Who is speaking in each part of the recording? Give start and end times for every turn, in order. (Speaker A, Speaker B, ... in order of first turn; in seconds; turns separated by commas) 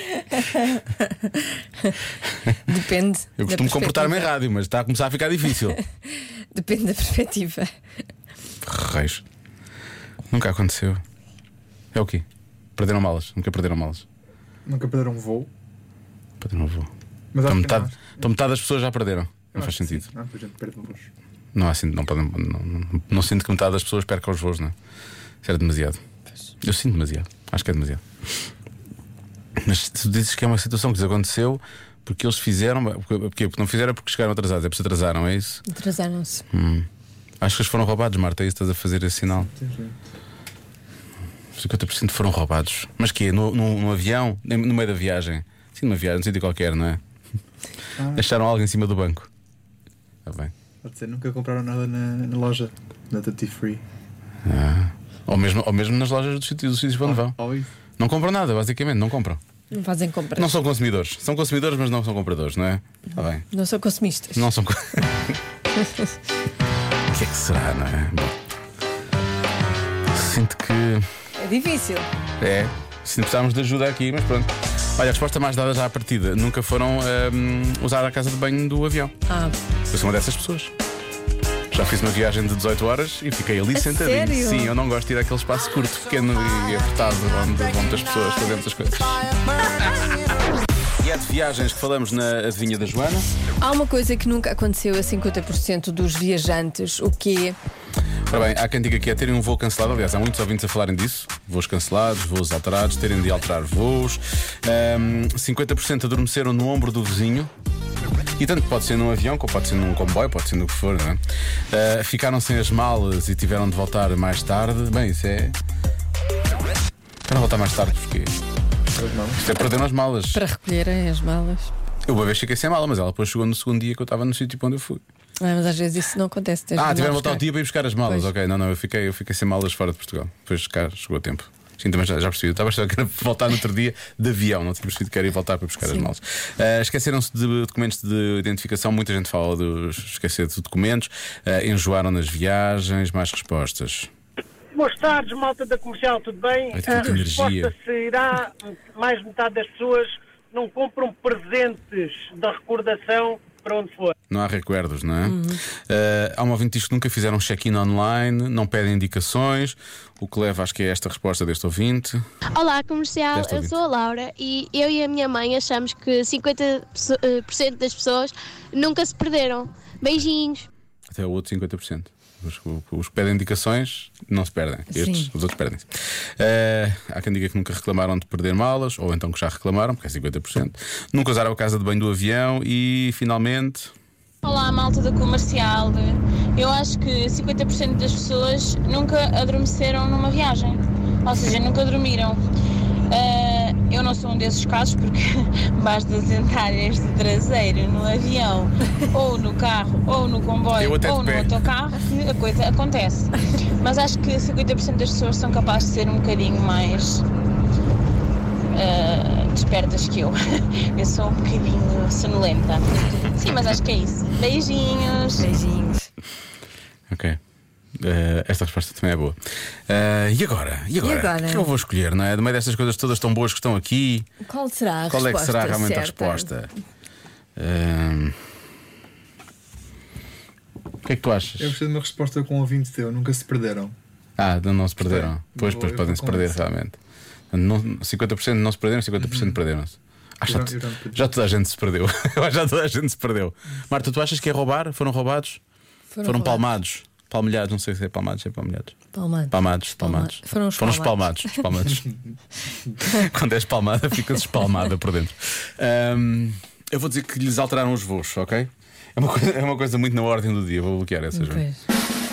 Speaker A: 0.2-0.6, Speaker A: 2.7-4.3, Speaker B: 3.4-5.8, Speaker A: 6.5-7.7, Speaker B: 8.6-9.2, Speaker B: 10.3-11.0, Speaker B: 11.9-12.2, Speaker B: 12.8-14.0, Speaker C: 14.7-15.5, Speaker B: 16.4-16.9, Speaker C: 17.3-18.3, Speaker B: 17.4-20.0, Speaker C: 19.5-21.1, Speaker B: 21.5-24.7, Speaker B: 25.4-26.0, Speaker B: 26.6-28.0, Speaker B: 29.6-35.6, Speaker A: 35.7-36.4, Speaker B: 36.5-36.9, Speaker B: 37.4-39.5, Speaker C: 39.3-39.9, Speaker B: 41.6-47.0, Speaker C: 48.0-48.3, Speaker B: 48.1-49.3, Speaker B: 50.2-50.5, Speaker C: 50.8-53.8, Speaker B: 54.5-57.4, Speaker C: 57.0-57.7, Speaker B: 58.0-59.4, Speaker A: 59.7-60.5, Speaker B: 60.4-63.4, Speaker A: 63.5-64.4, Speaker B: 64.3-65.4, Speaker B: 67.1-68.4, Speaker B: 70.1-71.0, Speaker A: 71.4-72.1, Speaker B: 72.4-79.1, Speaker A: 79.3-79.5, Speaker B: 79.9-80.7, Speaker B: 81.7-90.2, Speaker A: 83.7-84.8, Speaker B: 91.0-93.3, Speaker A: 93.6-97.5, Speaker B: 98.3-107.5, Speaker B: 108.4-115.5, Speaker B: 117.2-118.3, Speaker C: 119.0-119.4, Speaker B: 119.4-120.4, Speaker A: 120.3-121.7, Speaker B: 122.1-125.0, Speaker A: 125.4-127.5, Speaker B: 126.8-144.1, Speaker A: 128.0-128.3, Speaker A: 135.8-136.1, Speaker D: 144.8-148.2, Speaker B: 146.7-147.7, Speaker A: 146.9-147.2, Speaker D: 149.0-154.1, Speaker B: 154.3-162.2, Speaker A: 155.2-155.6, Speaker E: 162.5-170.7, Speaker B: 163.3-163.8, Speaker B: 171.1-175.8, Speaker A: 174.9-175.3, Speaker B: 176.4-183.9, Speaker F: 184.4-192.4, Speaker F: 193.1-195.2, Speaker F: 195.8-207.2, Speaker B: 200.8-201.6, Speaker F: 208.7-210.3, Speaker F: 210.9-215.5, Speaker A: 215.4-216.1, Speaker B: 217.1-217.4, Speaker B: 218.0-219.3, Speaker B: 219.9-224.3, Speaker A: 221.0-221.7, Speaker A: 224.4-226.5, Speaker B: 225.1-226.7, Speaker B: 227.6-228.3, Speaker B: 231.0-231.8, Speaker C: 231.6-233.9, Speaker B: 234.4-237.0, Speaker C: 235.0-236.6, Speaker B: 237.5-245.6, Speaker C: 239.2-239.6, Speaker C: 240.4-241.3, Speaker A: 246.1-246.7, Speaker B: 246.2-248.9, Speaker A: 249.1-251.6, Speaker B: 249.5-252.1, Speaker B: 253.0-261.6, Speaker A: 261.3-261.8